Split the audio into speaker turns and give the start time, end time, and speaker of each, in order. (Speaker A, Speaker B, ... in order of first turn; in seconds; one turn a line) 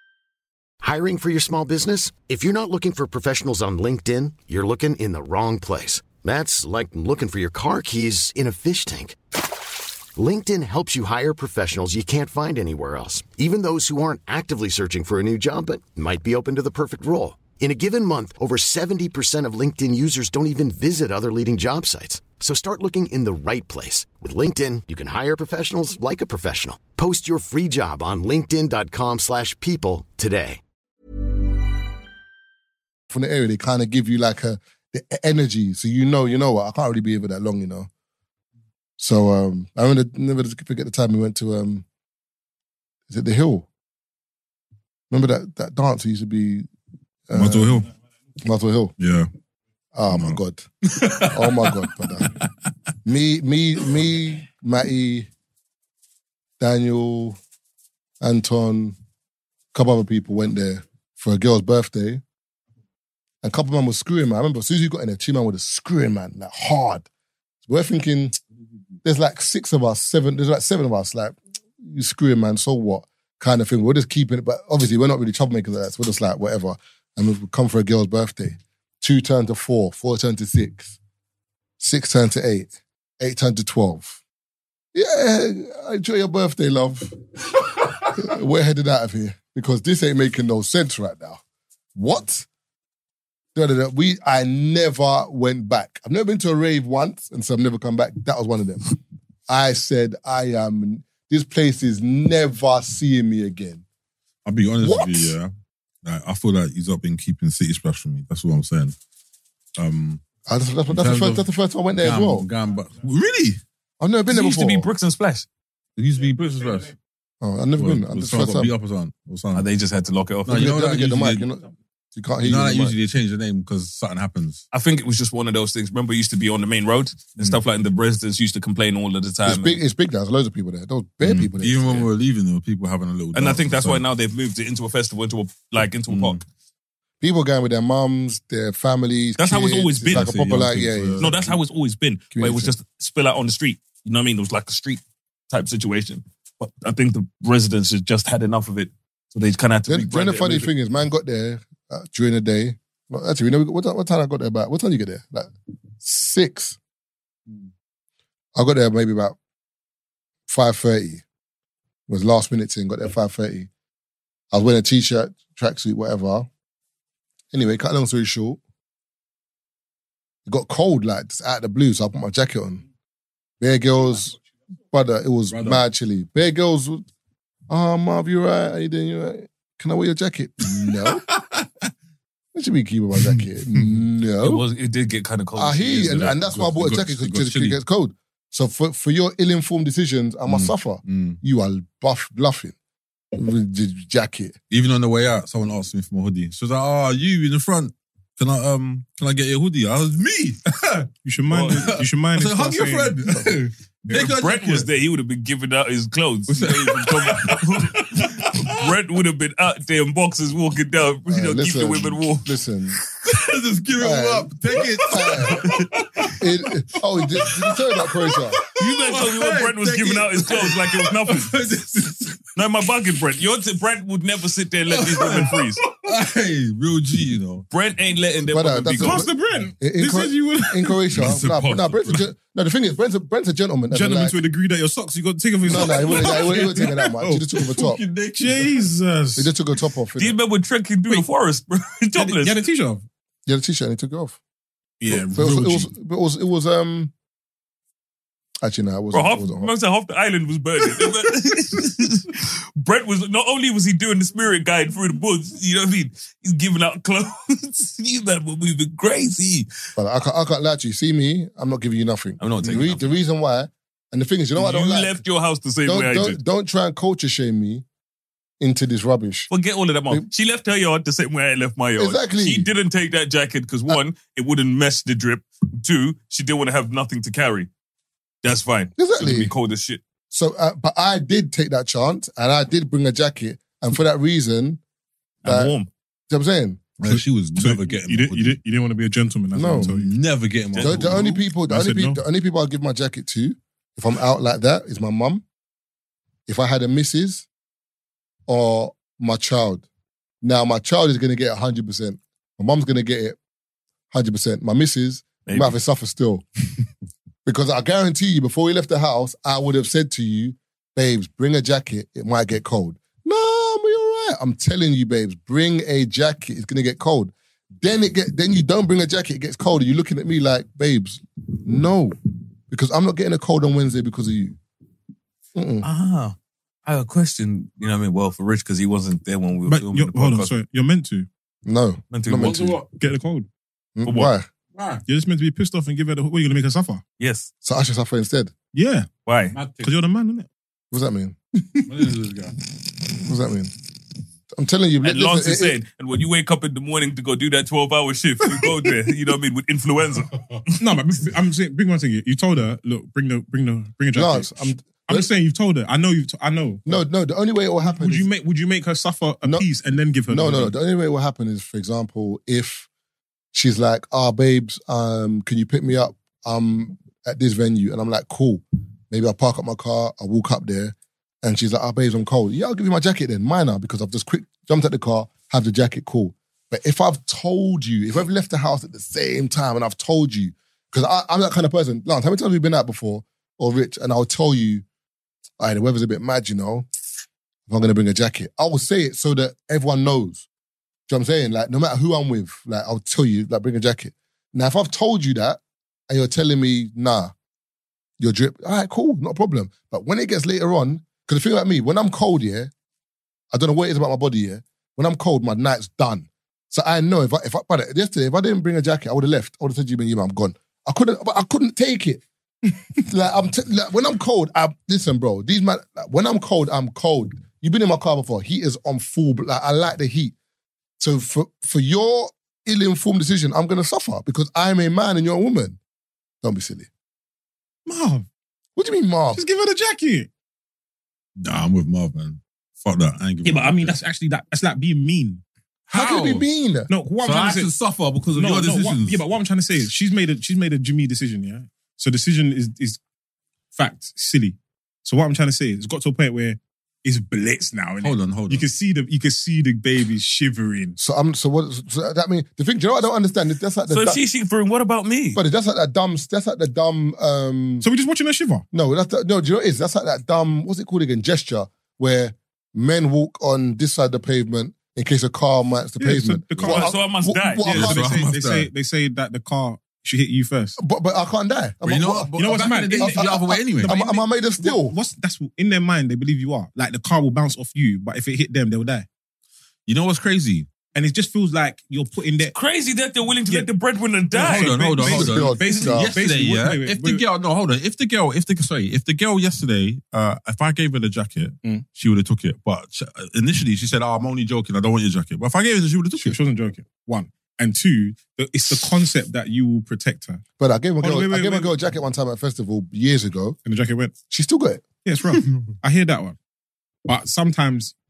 Speaker A: 0.8-9.2
Speaker A: 10.2-30.6
Speaker B: 33.1-37.9
Speaker B: 39.0-41.9
Speaker B: 43.1-43.7
Speaker B: 45.1-46.7
Speaker B: 47.3-47.9
Speaker C: 47.3-47.9
Speaker B: 48.4-49.0
Speaker C: 49.0-49.3
Speaker B: 50.0-50.7
Speaker C: 50.1-52.5
Speaker B: 51.3-52.3
Speaker B: 53.0-55.3
Speaker B: 56.6-57.4
Speaker B: 58.2-59.0
Speaker B: 59.7-62.2
Speaker B: 63.4-67.1
Speaker B: 67.7-68.4
Speaker B: 69.0-81.0
Speaker B: 81.8-84.2
Speaker B: 84.9-87.2
Speaker B: 88.0-91.4
Speaker B: 92.0-92.5
Speaker B: 93.5-99.0
Speaker B: 99.5-103.8
Speaker C: 104.5-105.5
Speaker B: 104.8-105.4
Speaker C: 106.0-109.0
Speaker C: 109.8-110.2
Speaker B: 110.5-112.5
Speaker C: 110.9-111.5
Speaker C: 112.0-113.6
Speaker B: 114.0-114.9
Speaker D: 114.3-115.5
Speaker C: 116.0-117.0
Speaker B: 117.4-118.7
Speaker C: 117.8-119.7
Speaker D: 119.5-120.7
Speaker C: 120.5-121.4
Speaker B: 120.5-123.0
Speaker C: 122.4-124.6
Speaker D: 124.7-129.8
Speaker B: 129.5-132.1
Speaker C: 131.2-134.0
Speaker D: 133.3-136.4
Speaker C: 136.1-136.4
Speaker B: 137.2-141.5
Speaker D: 139.4-140.3
Speaker C: 140.1-141.5
Speaker D: 141.2-150.7
Speaker B: 142.3-142.7
Speaker B: 149.9-156.8
Speaker B: 158.6-159.4
Speaker B: 160.5-161.2
Speaker B: 162.1-163.7
Speaker B: 164.5-166.5
Speaker B: 167.5-168.6
Speaker B: 170.5-172.8
Speaker B: 173.6-174.4
Speaker B: 174.9-177.0
Speaker C: 175.5-175.8
Speaker B: 177.7-181.2
Speaker C: 180.6-181.8
Speaker B: 182.5-184.6
Speaker C: 183.2-183.9
Speaker D: 184.4-186.4
Speaker B: 185.6-192.7
Speaker C: 186.4-187.8
Speaker C: 190.5-191.4
Speaker B: 193.3-194.6
Speaker C: 194.7-200.6
Speaker E: 201.2-203.2
Speaker C: 201.5-204.9
Speaker D: 201.5-201.9
Speaker B: 203.3-203.6
Speaker D: 204.1-212.5
Speaker C: 206.5-208.9
Speaker B: 211.3-213.0
Speaker C: 213.2-216.4
Speaker B: 214.0-215.7
Speaker D: 215.6-215.9
Speaker B: 216.4-218.6
Speaker C: 217.1-222.5
Speaker D: 218.8-221.5
Speaker D: 222.6-225.9
Speaker C: 225.0-227.7
Speaker D: 227.7-229.2
Speaker B: 228.5-234.4
Speaker E: 229.0-231.0
Speaker D: 231.2-232.2
Speaker E: 233.9-239.5
Speaker B: 235.7-238.0
Speaker C: 237.9-238.8
Speaker B: 239.4-240.4
Speaker D: 240.2-242.6
Speaker E: 242.2-243.0
Speaker B: 243.5-244.4
Speaker E: 245.0-245.9
Speaker B: 245.1-247.1
Speaker B: 248.6-249.7
Speaker D: 249.1-259.7
Speaker B: 260.0-265.2
Speaker D: 262.4-263.2
Speaker D: 264.6-266.4
Speaker B: 265.9-267.9
Speaker B: 268.6-269.5
Speaker D: 269.5-277.7
Speaker B: 272.0-272.7
Speaker D: 278.4-280.0
Speaker B: 279.0-279.5
Speaker B: 280.3-284.8
Speaker B: 285.4-285.8
Speaker D: 285.4-285.9
Speaker B: 286.3-286.8
Speaker C: 287.0-288.6
Speaker E: 287.1-290.2
Speaker B: 289.5-289.9
Speaker C: 289.7-291.3
Speaker E: 290.8-292.2
Speaker B: 290.8-295.4
Speaker B: 296.5-297.5
Speaker B: 298.5-299.9
Speaker B: 300.4-303.4
Speaker B: 304.1-306.4
Speaker D: 305.5-305.8
Speaker B: 307.5-322.2
Speaker B: 322.7-324.6
Speaker B: 325.6-325.9
Speaker D: 325.8-326.4
Speaker D: 326.9-330.6
Speaker E: 329.7-331.3
Speaker B: 331.6-332.8
Speaker D: 332.1-332.6
Speaker C: 332.4-332.9
Speaker E: 333.0-333.5
Speaker B: 334.0-334.5
Speaker D: 334.1-334.3
Speaker C: 334.7-335.0
Speaker E: 335.1-337.0
Speaker D: 337.2-337.5
Speaker B: 337.6-338.5
Speaker E: 338.7-339.1
Speaker D: 339.3-339.6
Speaker C: 339.5-339.9
Speaker E: 339.8-340.5
Speaker B: 340.9-341.9
Speaker C: 341.9-342.6
Speaker B: 343.1-343.7
Speaker B: 344.5-345.8
Speaker D: 345.0-350.8
Speaker E: 350.8-357.0
Speaker B: 354.1-355.3
Speaker B: 356.9-358.3
Speaker E: 357.9-360.8
Speaker B: 359.4-359.7
Speaker B: 360.3-362.9
Speaker B: 363.5-384.8
Speaker B: 385.6-386.9
Speaker B: 387.7-390.5
Speaker B: 391.1-397.3
Speaker B: 398.2-402.7
Speaker B: 403.5-412.2
Speaker B: 412.9-420.4
Speaker B: 421.0-425.8
Speaker B: 426.4-426.9
Speaker E: 427.9-428.3
Speaker B: 428.8-429.4
Speaker E: 429.3-430.3
Speaker C: 431.4-434.0
Speaker E: 433.4-435.4
Speaker C: 435.9-436.4
Speaker B: 435.9-436.9
Speaker E: 436.9-437.7
Speaker C: 437.2-439.2
Speaker E: 438.3-443.0
Speaker E: 443.8-451.0
Speaker C: 448.0-448.7
Speaker B: 451.0-454.2
Speaker D: 453.9-455.4
Speaker B: 455.4-457.9
Speaker E: 457.8-458.6
Speaker B: 458.7-468.2
Speaker E: 466.0-466.9
Speaker D: 466.6-467.7
Speaker E: 467.6-470.8
Speaker C: 467.7-468.7
Speaker B: 470.8-472.3
Speaker C: 471.8-473.9
Speaker E: 472.4-479.1
Speaker B: 473.0-475.0
Speaker C: 479.9-480.7
Speaker E: 480.9-482.6
Speaker D: 482.5-484.8
Speaker E: 484.3-487.2
Speaker C: 484.3-496.4
Speaker B: 485.0-486.1
Speaker E: 496.2-500.4
Speaker B: 500.6-503.6
Speaker E: 501.0-501.8
Speaker E: 503.6-504.1
Speaker B: 504.3-504.8
Speaker E: 505.1-506.4
Speaker E: 507.1-507.9